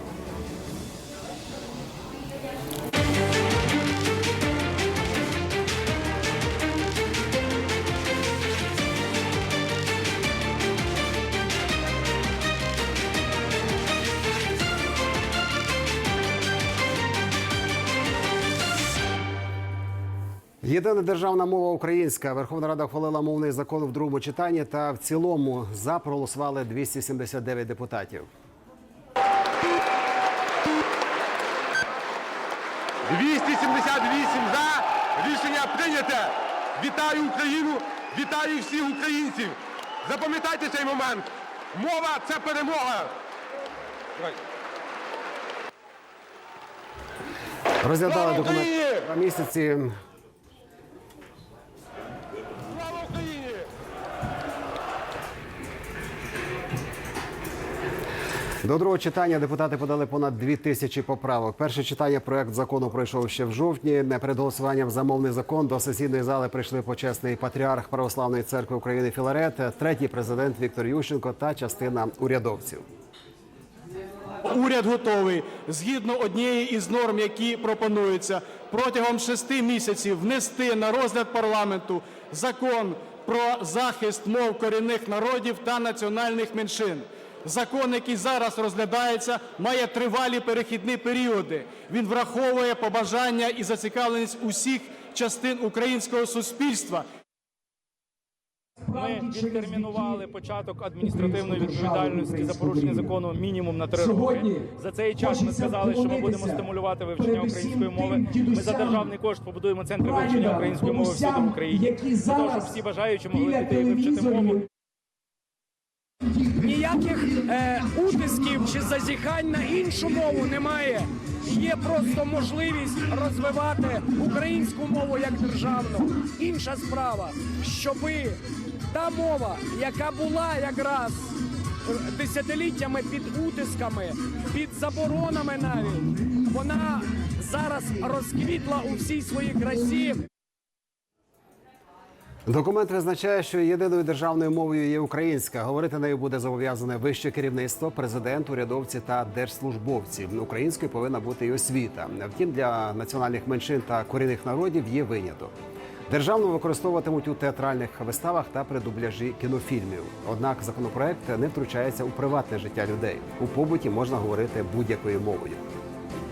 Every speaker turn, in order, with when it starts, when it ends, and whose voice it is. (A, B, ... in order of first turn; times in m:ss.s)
0:20.6-0:28.3 A
0:33.1-0:43.1 B
0:47.8-0:49.9 A
0:48.4-0:48.9 B
0:52.8-0:53.5 B
0:58.6-1:12.8 A
1:14.5-1:37.0 C
1:38.9-1:40.2 D
1:38.9-1:54.6 E
1:41.0-1:43.1 D
1:44.0-1:44.7 D
1:45.2-1:49.1 D
1:50.0-1:52.8 D
1:53.4-1:54.6 D
1:56.6-2:08.4 D
2:08.9-2:11.3 D
2:11.9-2:20.2 D
2:22.5-2:35.5 A
2:36.1-2:45.6 A